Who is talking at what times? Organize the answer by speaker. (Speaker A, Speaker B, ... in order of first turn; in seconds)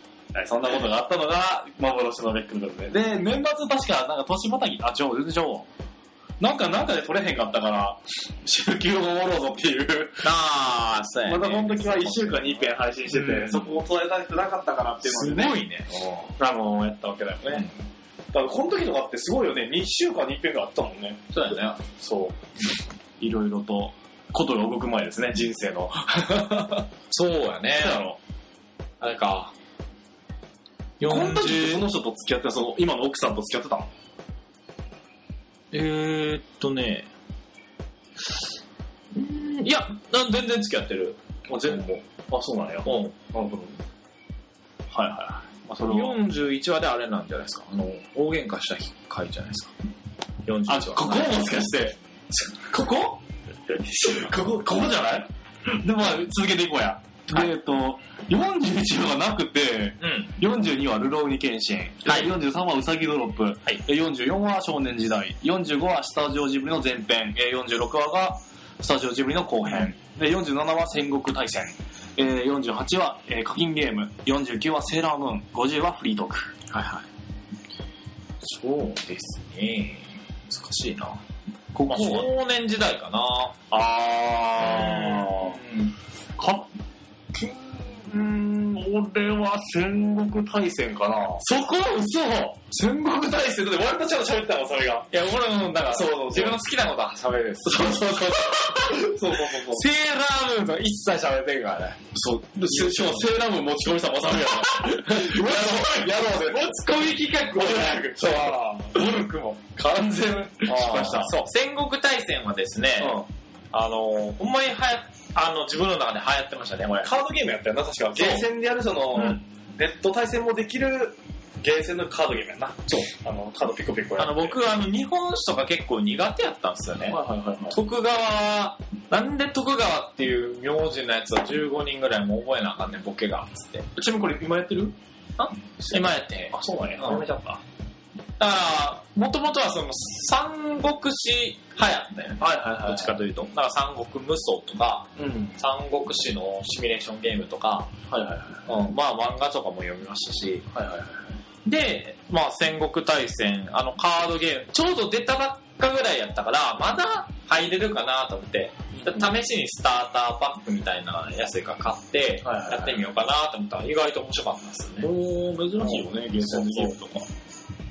Speaker A: 0.3-5.7, 6.4-10.3, 11.2-15.6, 16.4-17.7, 18.3-22.4, 23.2-26.8, 27.7-28.2, 31.0-33.9, 41.5-43.8, 44.9-46.2, 50.7-53.2, 53.8-76.5, 81.7-82.3, 83.7-85.6, 86.4-86.7, 87.3-91.5, 92.7-95.1, 95.8-96.6, 97.6-99.8, 102.1-109.0, 109.8-111.3, 113.0-113.3, 117.0-124.6, 127.0-127.8, 133.9-134.9, 135.8-137.6, 142.4-143.2, 145.2-145.6, 148.1-148.7, 150.7-151.4, 158.9-159.3, 162.4-163.1, 165.0-167.2
Speaker B: 10.2-13.8, 15.0-16.3, 21.3-21.8, 27.1-28.0, 29.0-29.5, 31.0-31.9, 35.7-37.1, 39.1-41.9, 42.8-43.1, 45.9-49.7, 50.4-51.4, 53.9-54.3, 60.0-60.3, 62.0-62.3, 76.7-77.0, 78.4-81.2, 81.8-83.5, 84.6-85.9, 91.4-92.6, 95.1-102.0, 102.6-103.3, 104.4-109.7, 110.6-117.1, 118.1-118.5, 119.1-119.4, 124.2-133.9, 135.4-137.3, 138.4-147.9, 148.7-150.7, 151.6-165.1, 165.8-167.0